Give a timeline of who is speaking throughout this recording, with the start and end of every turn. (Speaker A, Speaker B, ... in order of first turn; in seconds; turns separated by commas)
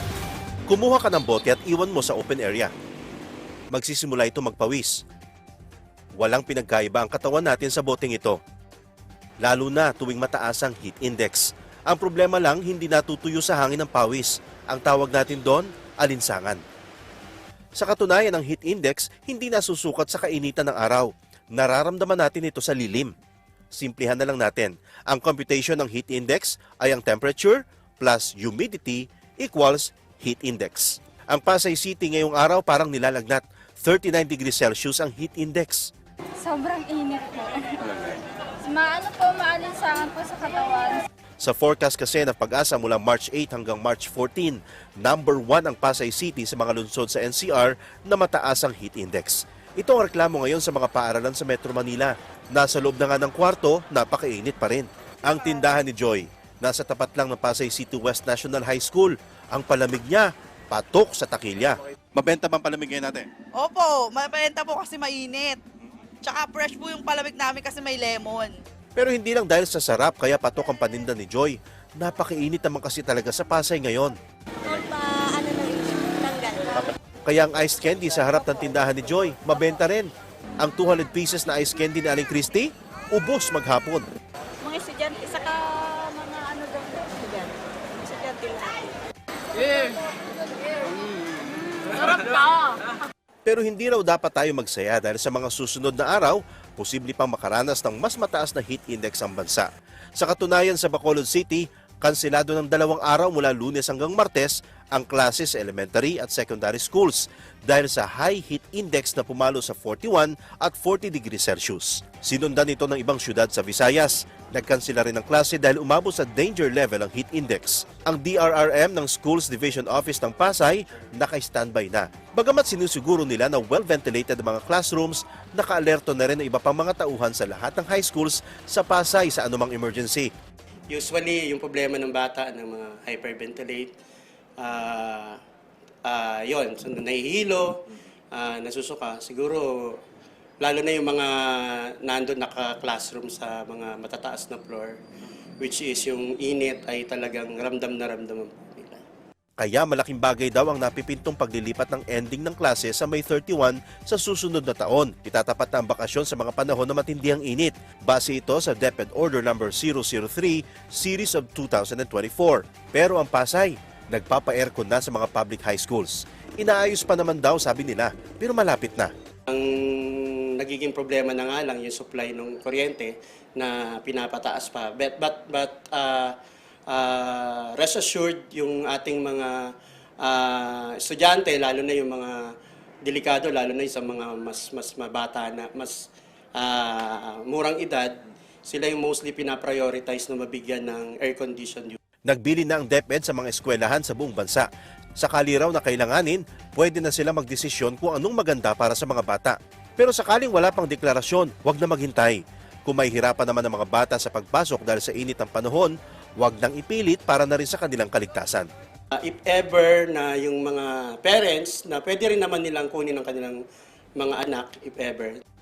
Speaker A: 0.7-2.7, Speaker A: 3.7-5.0, Speaker A: 6.2-8.4, Speaker A: 9.4-16.6, Speaker A: 17.7-23.1, Speaker A: 23.7-35.9, Speaker B: 36.4-41.0, Speaker A: 41.4-63.3, Speaker C: 63.5-65.6, Speaker C: 66.2-68.6, Speaker A: 69.0-74.8, Speaker D: 74.7-76.8, Speaker A: 76.8-84.0, Speaker D: 84.6-88.9, Speaker D: 91.5-92.5, Speaker A: 93.4-130.3, Speaker E: 130.9-133.9, Speaker E: 134.6-135.4, Speaker E: 136.0-137.8, Speaker E: 138.3-140.0, Speaker E: 140.6-145.0, Speaker E: 145.6-149.0, Speaker A: 149.6-169.1, Speaker E: 169.5-176.3, Speaker E: 176.9-182.5, Speaker E: 183.0-192.0, Speaker A: 192.2-208.7, Speaker E: 209.2-213.6, Speaker E: 214.2-215.4